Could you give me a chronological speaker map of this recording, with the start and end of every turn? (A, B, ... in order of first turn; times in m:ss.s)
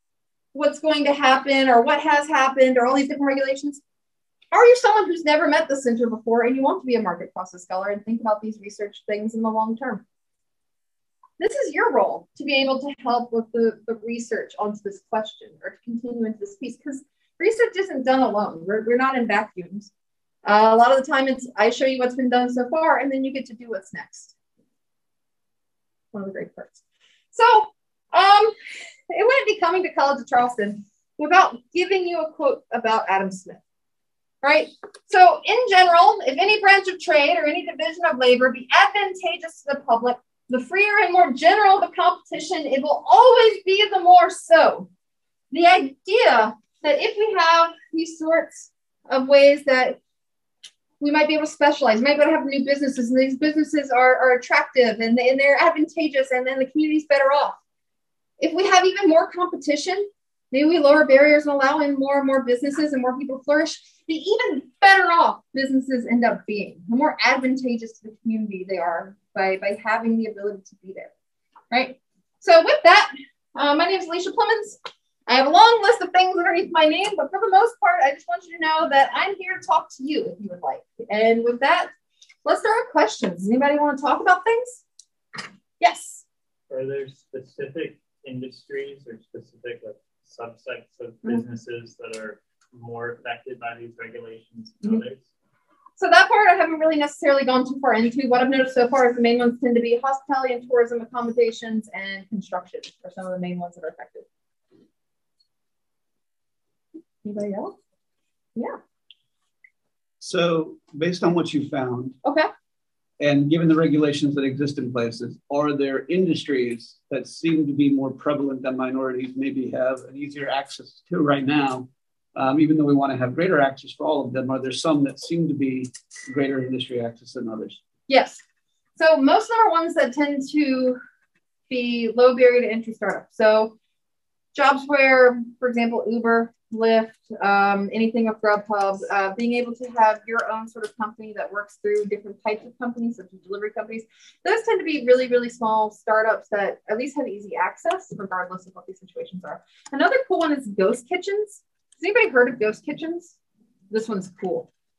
0:00.5-0:03.8 A
0:04.5-0:10.0 A
0:11.4-0:19.9 A
0:20.4-0:24.3 A
0:26.1-0:26.8 A
0:27.3-0:28.5 A
0:29.1-0:33.6 A
0:34.4-0:44.9 A
0:45.5-0:50.0 A
0:51.0-0:57.6 A
0:58.4-1:11.1 A
1:11.7-1:21.9 A
1:22.4-1:24.8 A
1:25.8-1:26.2 A
1:26.7-1:35.2 B
1:36.0-1:44.2 A
1:47.2-1:47.8 A
1:50.2-1:52.2 C
1:52.2-1:52.5 A
1:53.2-2:07.8 C
2:08.1-2:08.4 A
2:09.0-2:11.0 A
2:11.7-2:13.7 A
2:14.5-2:33.3 A
2:33.9-2:34.7 A